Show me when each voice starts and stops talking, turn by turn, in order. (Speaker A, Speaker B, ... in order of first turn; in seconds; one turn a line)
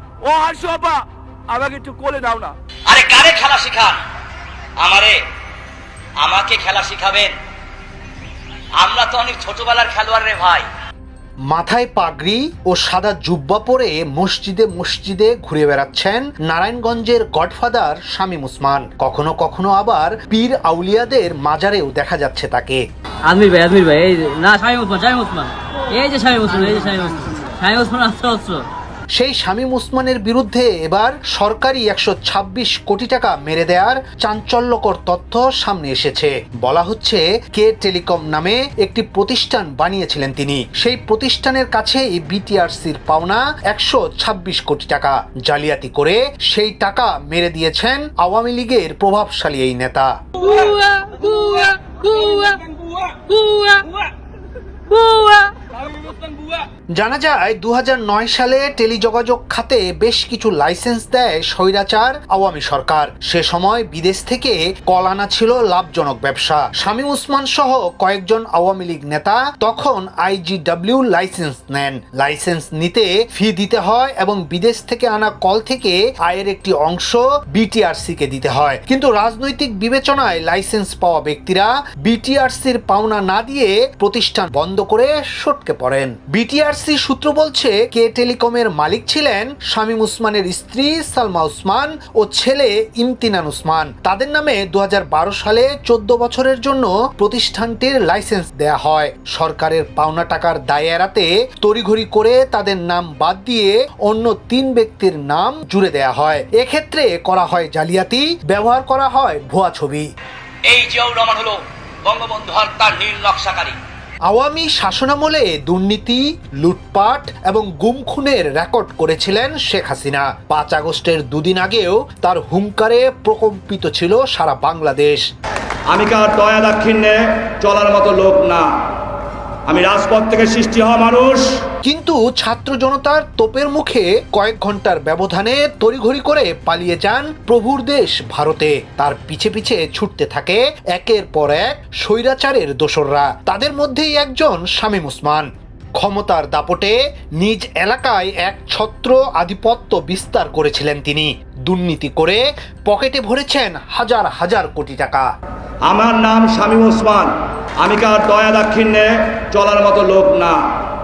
Speaker A: 0.2-2.5
Speaker B: 2.9-4.0
Speaker B: 4.8-5.2
Speaker B: 6.2-7.3
Speaker B: 8.8-10.7
Speaker C: 11.5-22.8
Speaker D: 23.2-28.7
Speaker C: 29.1-50.1
Speaker D: 55.0-55.5
Speaker C: 56.9-110.0
Speaker B: 110.7-113.8
Speaker C: 114.3-125.2
Speaker E: 125.9-128.7
Speaker E: 129.7-131.5
Speaker C: 131.8-155.3
Speaker E: 155.8-160.6